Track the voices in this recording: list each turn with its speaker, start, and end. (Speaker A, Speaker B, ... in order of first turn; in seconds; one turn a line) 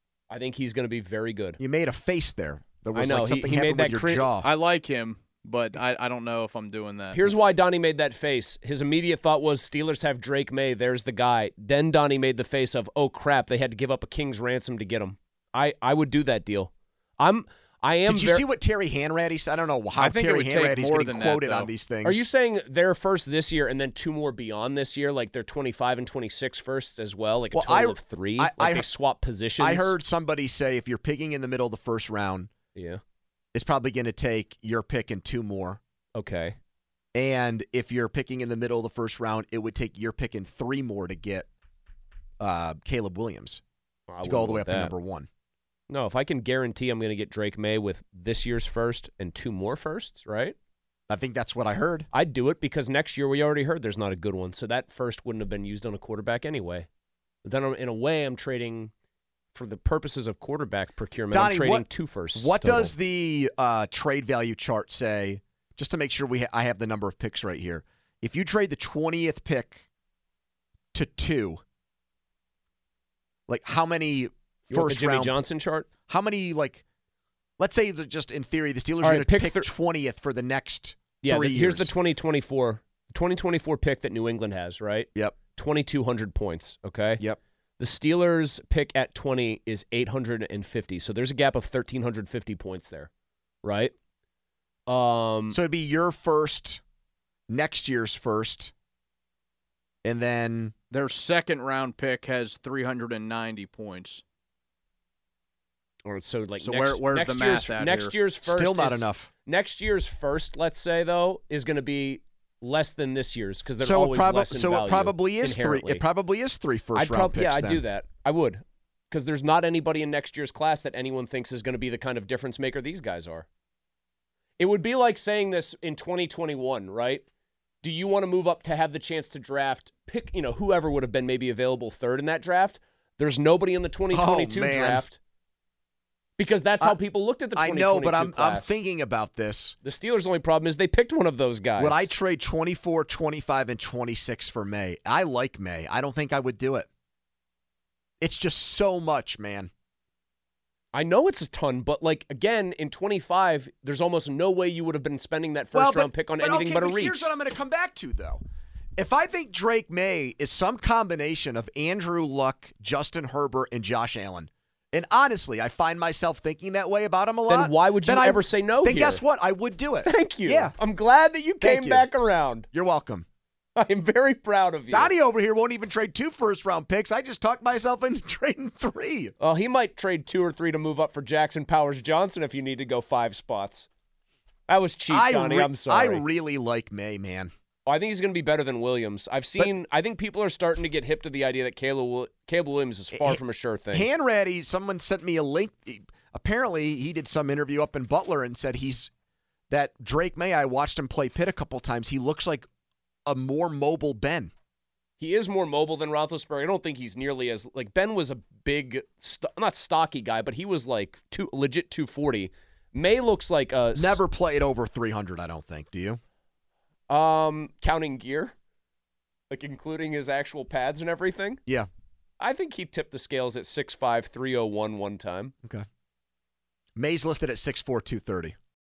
Speaker A: 0.3-1.6
Speaker B: 1.6-4.5
Speaker A: 2.9-4.3
Speaker C: 4.4-7.3
Speaker A: 7.1-18.4
Speaker B: 18.1-22.2
Speaker C: 20.0-21.7
Speaker A: 22.0-30.0
Speaker B: 27.5-28.9
Speaker B: 29.6-32.5
Speaker A: 32.8-33.0
Speaker B: 33.5-35.8
Speaker A: 36.2-36.6
Speaker B: 37.1-41.5
Speaker B: 42.4-43.6
Speaker A: 44.1-44.9
Speaker B: 44.2-45.3
Speaker A: 45.9-50.6
Speaker B: 51.1-52.1
Speaker A: 52.1-56.9
Speaker A: 57.4-58.9
Speaker A: 59.5-62.9
Speaker B: 61.3-69.8
Speaker B: 70.9-71.6
Speaker B: 73.5-75.4
Speaker A: 74.7-75.9
Speaker B: 76.1-76.8
Speaker B: 77.6-81.9
Speaker A: 79.0-79.7
Speaker A: 81.2-87.2
Speaker A: 87.8-93.1
Speaker A: 93.6-93.9
Speaker A: 94.9-95.6
Speaker B: 95.5-96.8
Speaker B: 97.5-98.7
Speaker B: 100.0-100.7
Speaker C: 100.9-104.2
Speaker A: 106.1-116.0
Speaker C: 106.6-108.2
Speaker B: 108.5-109.3
Speaker B: 113.8-117.8
Speaker A: 117.0-123.5
Speaker A: 124.6-127.2
Speaker A: 127.8-135.2
Speaker B: 134.1-135.0
Speaker A: 136.4-138.7
Speaker B: 137.6-139.8
Speaker A: 139.8-142.1
Speaker B: 141.8-146.9
Speaker B: 148.2-149.7
Speaker A: 150.9-157.2
Speaker B: 155.7-158.4
Speaker B: 159.0-170.8
Speaker A: 167.5-169.2
Speaker A: 170.0-172.7
Speaker B: 171.6-172.1
Speaker B: 172.7-173.3
Speaker A: 173.8-175.1
Speaker B: 174.9-179.3
Speaker A: 179.4-183.9
Speaker A: 184.7-186.2
Speaker B: 185.1-187.5
Speaker A: 187.9-194.1
Speaker B: 193.1-193.4
Speaker B: 193.9-199.1
Speaker B: 199.7-202.7
Speaker B: 203.3-204.5
Speaker A: 205.2-214.2
Speaker B: 213.9-216.2
Speaker A: 217.1-218.6
Speaker A: 219.5-221.6
Speaker A: 222.4-225.5
Speaker B: 227.0-228.6